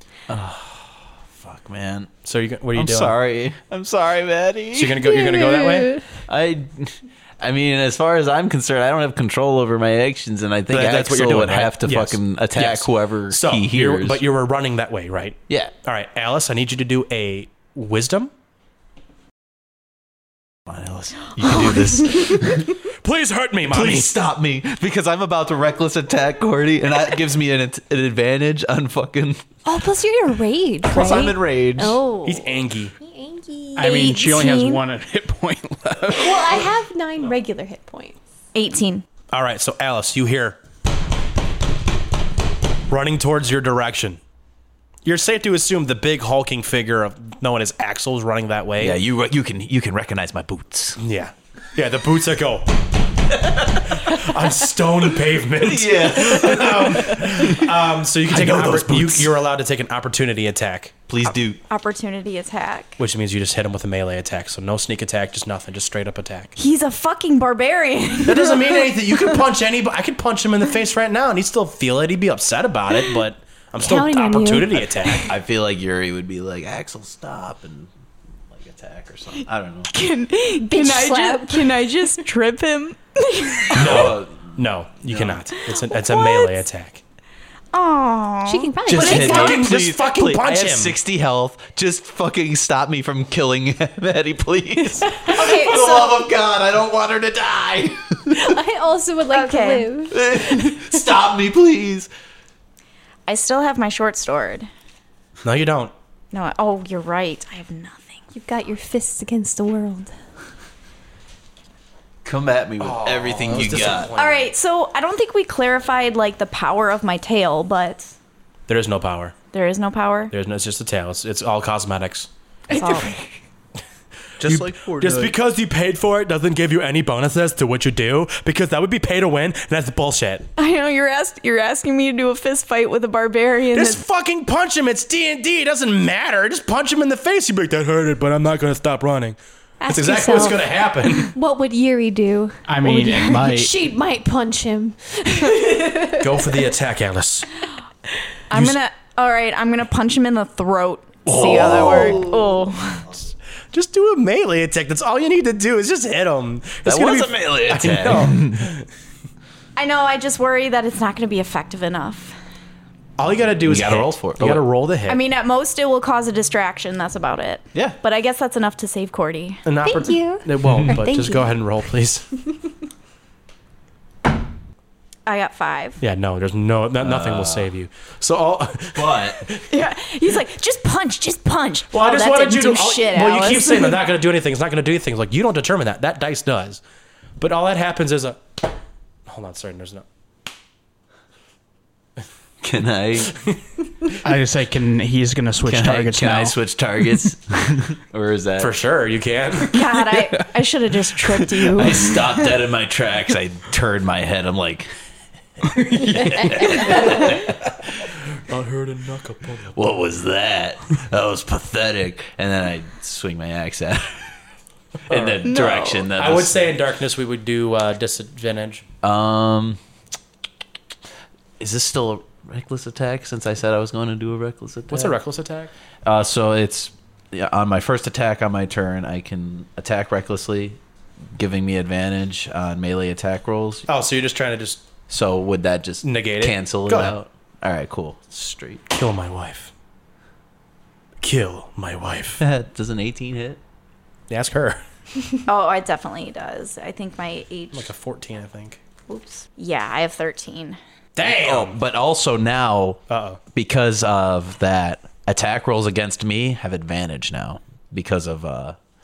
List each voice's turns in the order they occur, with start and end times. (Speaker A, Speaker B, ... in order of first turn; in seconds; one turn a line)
Speaker A: 0.3-2.1
Speaker B: 2.2-3.2
Speaker A: 2.8-5.0
Speaker B: 4.7-5.9
Speaker C: 5.0-6.2
Speaker A: 6.3-14.2
Speaker B: 10.7-18.3
Speaker A: 20.7-22.7
Speaker B: 22.8-24.1
Speaker A: 23.7-29.4
Speaker C: 29.6-34.0
Speaker A: 30.9-32.0
Speaker D: 31.0-31.3
Speaker B: 32.2-32.9
Speaker E: 33.8-36.5
Speaker D: 33.8-34.8
Speaker C: 36.1-38.2
Speaker D: 38.5-39.0
Speaker B: 39.3-40.6
Speaker B: 42.9-44.2
Speaker B: 45.0-49.0
Speaker A: 48.8-51.0
Speaker B: 51.0-52.8
Speaker A: 53.4-54.0
Speaker B: 53.9-61.4
Speaker A: 55.6-57.7
Speaker A: 58.3-59.3
Speaker A: 61.1-61.6
Speaker D: 61.7-63.0
Speaker B: 63.0-66.5
Speaker D: 66.6-68.8
Speaker B: 68.2-75.3
Speaker C: 73.8-74.9
Speaker A: 75.0-77.9
Speaker A: 78.5-79.9
Speaker D: 79.9-83.8
Speaker C: 80.6-82.2
Speaker A: 83.7-84.5
Speaker B: 83.7-87.0
Speaker A: 85.1-85.4
Speaker D: 85.9-86.6
Speaker D: 87.7-89.5
Speaker C: 88.5-89.6
Speaker A: 88.9-98.5
Speaker B: 88.9-91.0
Speaker C: 95.2-96.2
Speaker D: 95.6-96.1
Speaker C: 98.3-101.0
Speaker D: 99.3-99.9
Speaker A: 100.1-102.1
Speaker D: 103.3-104.7
Speaker B: 105.4-105.9
Speaker D: 106.3-108.2
Speaker C: 108.3-110.1
Speaker A: 112.2-114.1
Speaker B: 112.8-114.5
Speaker D: 114.2-118.2
Speaker B: 118.7-119.3
Speaker D: 119.5-120.3
Speaker B: 120.3-122.3
Speaker D: 122.7-123.2
Speaker C: 122.7-123.3
Speaker B: 124.4-130.5
Speaker A: 124.4-125.3
Speaker D: 130.6-134.0
Speaker B: 133.7-141.3
Speaker C: 139.8-146.6
Speaker E: 142.7-143.7
Speaker B: 146.1-147.5
Speaker D: 148.5-153.1
Speaker B: 148.5-148.8
Speaker A: 151.3-152.4
Speaker B: 151.3-152.3
Speaker B: 153.7-158.9
Speaker A: 156.9-158.7
Speaker D: 159.8-162.3
Speaker B: 163.2-165.2
Speaker A: 163.7-164.6
Speaker D: 165.1-169.6
Speaker B: 169.7-172.3
Speaker C: 169.8-171.5
Speaker D: 175.3-176.0
Speaker B: 176.0-179.6
Speaker A: 177.0-177.7
Speaker A: 178.9-179.4
Speaker D: 179.7-184.0
Speaker B: 181.9-186.8
Speaker B: 187.4-188.4
Speaker B: 189.3-190.1
Speaker A: 192.6-193.4
Speaker E: 194.2-196.6
Speaker A: 195.7-198.7
Speaker B: 198.6-199.8
Speaker D: 199.7-202.2
Speaker A: 201.6-204.9
Speaker A: 205.6-208.1
Speaker E: 205.8-206.3
Speaker B: 206.9-207.1
Speaker B: 208.3-209.7
Speaker A: 209.7-214.3
Speaker A: 215.1-216.6
Speaker B: 215.1-218.8
Speaker D: 215.5-216.1
Speaker A: 219.0-219.8
Speaker A: 221.6-225.2
Speaker B: 224.9-225.7
Speaker A: 226.0-230.8
Speaker A: 231.3-233.9
Speaker B: 233.9-234.9
Speaker A: 235.1-238.8
Speaker B: 236.0-237.2
Speaker B: 238.9-239.7
Speaker B: 241.2-242.4
Speaker A: 242.4-243.6
Speaker B: 244.3-244.8
Speaker D: 245.5-247.9
Speaker B: 247.7-248.8
Speaker D: 249.1-250.8
Speaker B: 251.2-251.8
Speaker A: 251.2-253.0
Speaker B: 253.1-253.4
Speaker A: 253.5-258.8